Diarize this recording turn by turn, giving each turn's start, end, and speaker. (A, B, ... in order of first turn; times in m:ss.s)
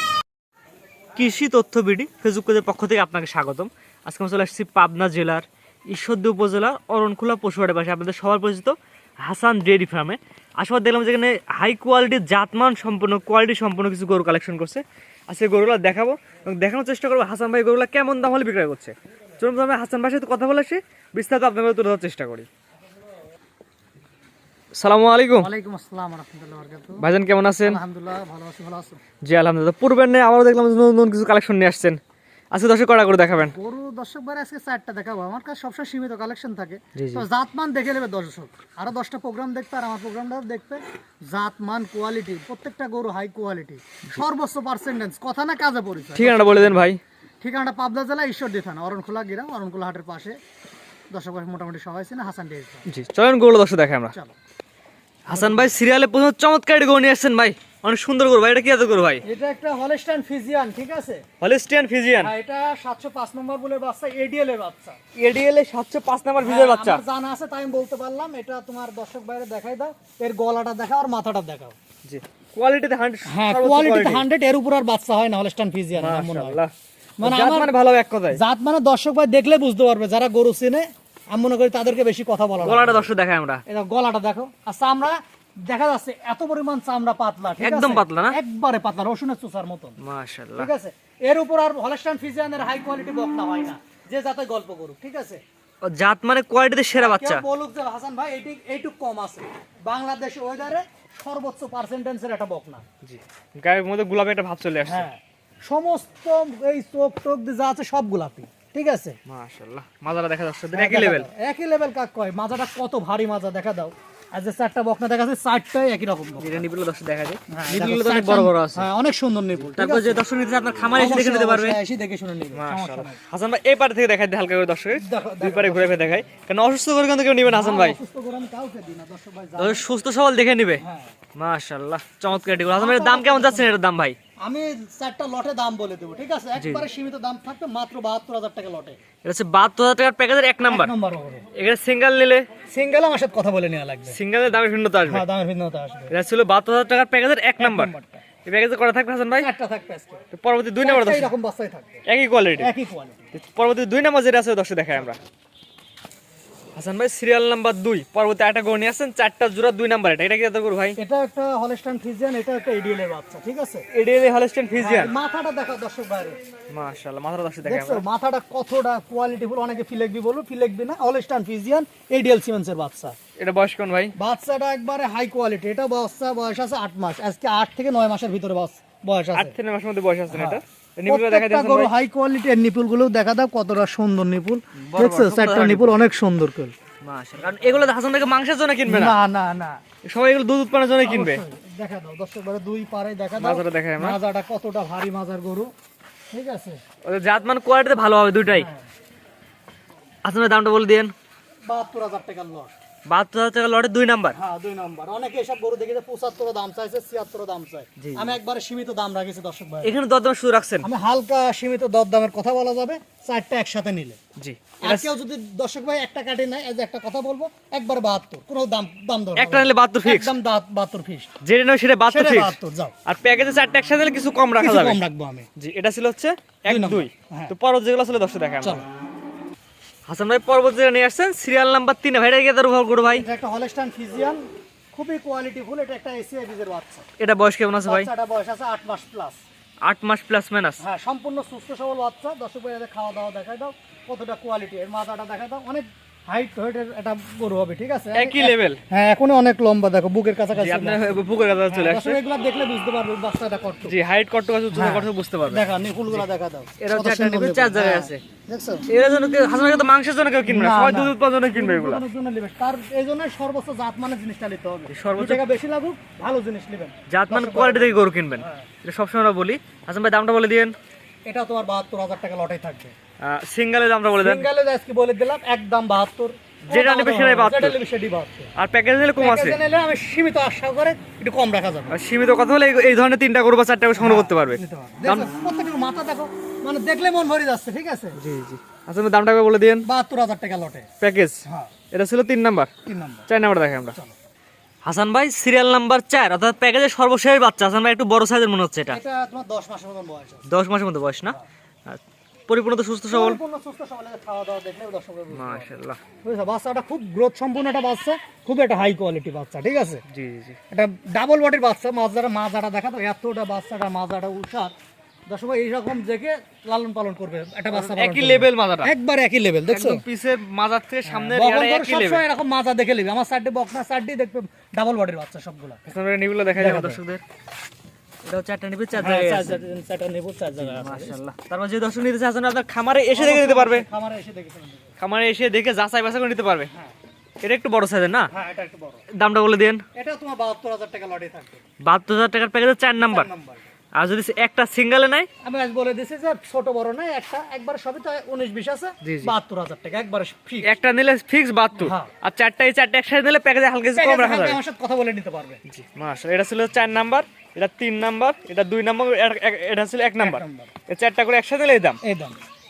0:01.2-0:22.5 A
0:24.7-0:25.5 A
0:25.4-0:27.0 B
0:27.0-0:27.8 A
0:27.6-0:29.0 B
0:29.2-0:32.0 A
0:32.5-0:33.5 A
0:33.4-0:46.8 B
0:36.9-0:37.2 A
0:46.1-0:47.0 A
0:47.4-0:50.4 B
0:51.1-0:52.9 B
0:52.9-0:54.1 A
0:55.3-0:59.2 A
0:55.3-0:55.7 B
0:59.2-1:01.2 B
1:01.4-1:02.3 A
1:02.2-1:05.0 B
1:05.2-1:07.0 A
1:06.4-1:11.8 B
1:12.0-1:14.2 A
1:13.3-1:16.6 B
1:15.9-1:16.7 A
1:17.2-1:17.7 B
1:17.2-1:18.4 A
1:18.3-1:23.1 B
1:22.6-1:23.6 A
1:23.7-1:30.0 B
1:27.6-1:28.4 A
1:30.0-1:30.7 A
1:30.6-1:35.4 B
1:35.8-1:37.4 A
1:36.9-1:42.8 B
1:43.0-1:45.1 A
1:44.8-1:49.2 B
1:49.2-1:51.3 A
1:50.7-1:56.6 B
1:56.4-1:58.9 A
1:57.5-2:00.2 B
1:59.6-2:01.8 A
2:00.9-2:03.2 B
2:02.5-2:08.0 A
2:05.0-2:06.2 B
2:07.4-2:09.8 B
2:09.6-2:10.8 A
2:10.8-2:11.1 B
2:11.4-2:14.2 A
2:12.3-2:13.7 B
2:14.4-2:19.0 B
2:16.5-2:16.9 A
2:19.2-2:20.9 A
2:20.6-2:21.4 B
2:21.5-2:22.5 A
2:22.7-2:24.2 B
2:24.1-2:25.2 A
2:25.0-2:26.1 B
2:26.1-2:27.9 A
2:27.6-2:28.2 B
2:28.4-2:29.5 A
2:29.4-2:30.2 B
2:30.3-2:31.3 A
2:30.8-2:32.0 B
2:32.0-2:32.7 A
2:32.6-2:33.2 B
2:33.3-2:35.2 A
2:36.7-2:41.0 A
2:41.0-2:43.8 B
2:43.9-2:45.1 A
2:44.8-2:46.4 B
2:46.7-2:48.0 A
2:47.6-2:53.2 B
2:53.4-2:54.1 A
2:54.2-2:59.5 B
2:59.3-3:01.9 A
3:00.3-3:06.7 B
3:04.8-3:06.0 A
3:07.0-3:09.2 A
3:08.8-3:09.8 B
3:10.0-3:11.4 A
3:11.0-3:15.7 B
3:13.4-3:14.2 A
3:16.3-3:16.8 B
3:17.0-3:18.7 A
3:18.4-3:18.9 B
3:20.2-3:21.1 A
3:21.7-3:22.7 B
3:23.0-3:24.4 A
3:24.3-3:29.9 B
3:28.0-3:28.4 A
3:29.8-3:30.9 A
3:30.8-3:34.2 B
3:34.4-3:35.1 A
3:34.8-3:41.3 B
3:39.4-3:40.3 A
3:41.4-3:45.0 A
3:42.1-3:42.9 B
3:44.6-3:45.5 B
3:45.6-3:48.8 A
3:46.7-3:47.5 B
3:50.0-3:53.2 A
3:53.2-3:57.0 B
3:57.2-3:58.1 A
3:57.8-3:59.4 B
3:59.8-4:00.8 A
4:00.8-4:13.9 B
4:08.1-4:08.8 A
4:10.5-4:12.2 A
4:13.8-4:16.2 A
4:14.7-4:18.9 B
4:16.8-4:18.2 A
4:18.9-4:22.0 A
4:20.4-4:28.7 B
4:24.9-4:25.4 A
4:27.1-4:30.7 A
4:31.2-4:32.9 B
4:33.2-4:34.5 A
4:34.2-4:38.5 B
4:36.7-4:37.8 A
4:38.6-4:39.6 A
4:39.2-4:42.0 B
4:41.9-4:45.3 A
4:44.0-4:48.2 B
4:48.2-4:49.8 A
4:49.8-4:50.9 B
4:51.0-4:51.4 A
4:51.4-4:51.7 B
4:51.9-4:52.7 A
4:52.8-4:53.3 B
4:53.3-4:54.0 A
4:53.9-4:54.1 B
4:54.8-4:59.0 A
4:58.9-5:00.5 B
5:00.5-5:03.4 A
5:03.1-5:05.7 B
5:05.3-5:06.0 A
5:06.2-5:10.0 B
5:10.1-5:10.6 A
5:10.7-5:14.7 B
5:15.3-5:20.0 B
5:17.7-5:18.9 A
5:19.7-5:22.2 A
5:21.0-5:25.8 B
5:25.8-5:27.2 A
5:26.6-5:27.0 B
5:28.2-5:29.6 A
5:29.0-5:31.2 B
5:30.6-5:33.9 A
5:33.1-5:34.9 B
5:35.0-5:36.7 A
5:37.4-5:38.3 A
5:38.3-5:39.0 B
5:39.1-5:39.8 A
5:39.9-5:41.6 B
5:41.8-5:43.3 A
5:43.0-5:43.6 B
5:44.0-5:45.3 A
5:45.4-5:50.7 B
5:49.0-5:49.3 A
5:50.6-5:54.6 A
5:51.8-5:52.1 B
5:53.9-5:55.6 B
5:55.6-6:02.0 A
6:00.2-6:00.7 B
6:02.0-6:02.4 B